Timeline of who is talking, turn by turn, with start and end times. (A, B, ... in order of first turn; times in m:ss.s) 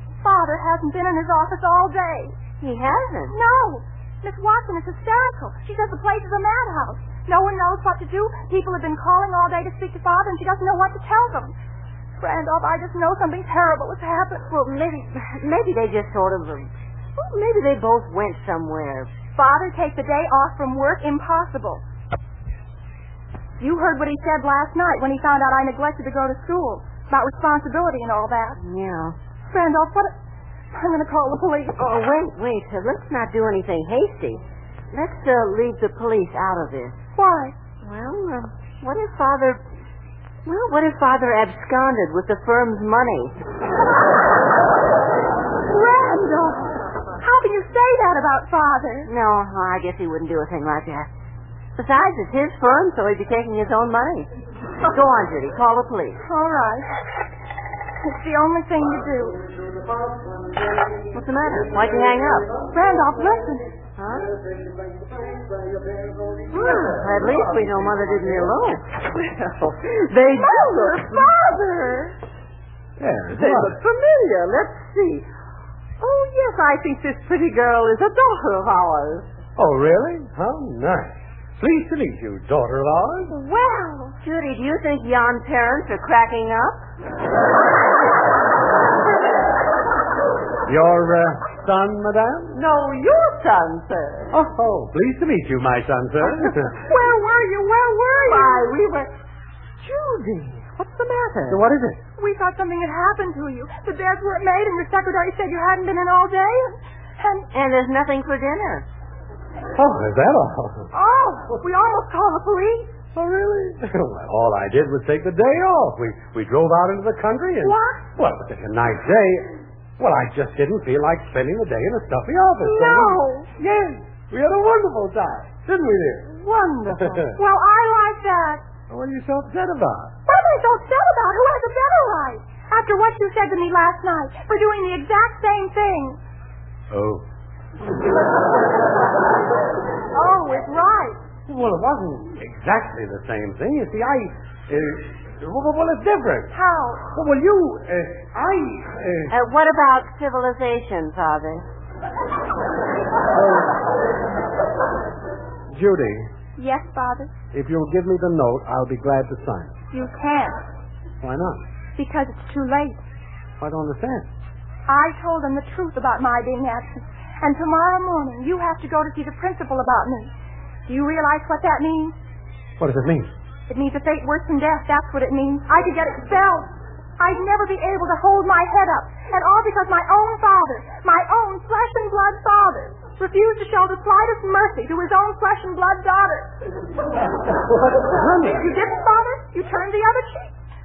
0:00.2-0:02.4 A
0:02.6-0:03.4 B
0:03.3-0:11.5 A
0:12.2-0:14.5 A
0:14.5-0:19.1 B
0:19.4-0:21.8 A
0:23.6-0:28.6 A
0:28.6-0:29.2 B
0:29.5-0:30.1 A
0:30.7-0:31.8 A
0:31.8-0:37.0 B
0:37.2-0:37.5 A
0:37.8-0:39.6 B
0:40.4-0:43.4 B
0:45.7-0:49.1 A
0:49.0-0:51.1 B
0:51.8-0:56.2 B
0:56.2-0:56.9 A
0:58.0-0:59.4 A
0:59.9-1:00.5 C
1:01.1-1:02.5 B
1:02.7-1:03.7 A
1:04.0-1:04.3 B
1:04.4-1:07.5 C
1:06.6-1:07.0 D
1:06.6-1:08.9 B
1:09.0-1:12.2 D
1:10.4-1:11.3 A
1:13.0-1:13.8 C
1:13.3-1:15.3 D
1:16.0-1:19.3 D
1:19.6-1:23.3 C
1:23.3-1:24.2 A
1:24.2-1:26.8 B
1:30.6-1:32.6 C
1:32.5-1:34.3 D
1:34.3-1:36.8 C
1:36.9-1:38.6 A
1:38.0-1:39.1 D
1:39.8-1:41.6 D
1:41.5-1:42.0 C
1:42.2-1:47.5 A
1:47.5-1:48.9 B
1:49.7-1:50.9 C
1:50.9-1:52.9 D
1:53.1-2:06.3 C
1:57.6-1:58.0 D
2:02.7-2:03.5 A
2:06.2-2:07.3 D
2:06.9-2:07.4 C
2:07.4-2:08.6 A
2:08.9-2:10.1 C
2:10.2-2:16.2 A
2:16.9-2:17.2 C
2:20.1-2:21.2 A
2:21.5-2:26.6 C
2:26.5-2:27.0 A
2:27.1-2:29.3 C
2:29.3-2:31.6 B
2:33.3-2:33.7 C
2:35.7-2:36.3 C
2:36.6-2:37.3 A
2:37.5-2:39.7 C
2:39.9-2:40.6 A
2:41.2-2:41.6 C
2:42.0-2:43.0 A
2:43.6-2:44.3 C
2:44.9-2:50.3 A
2:50.9-2:52.1 A
2:52.8-2:53.3 C
2:53.7-3:06.5 A
3:07.7-3:08.6 C
3:08.4-3:10.6 A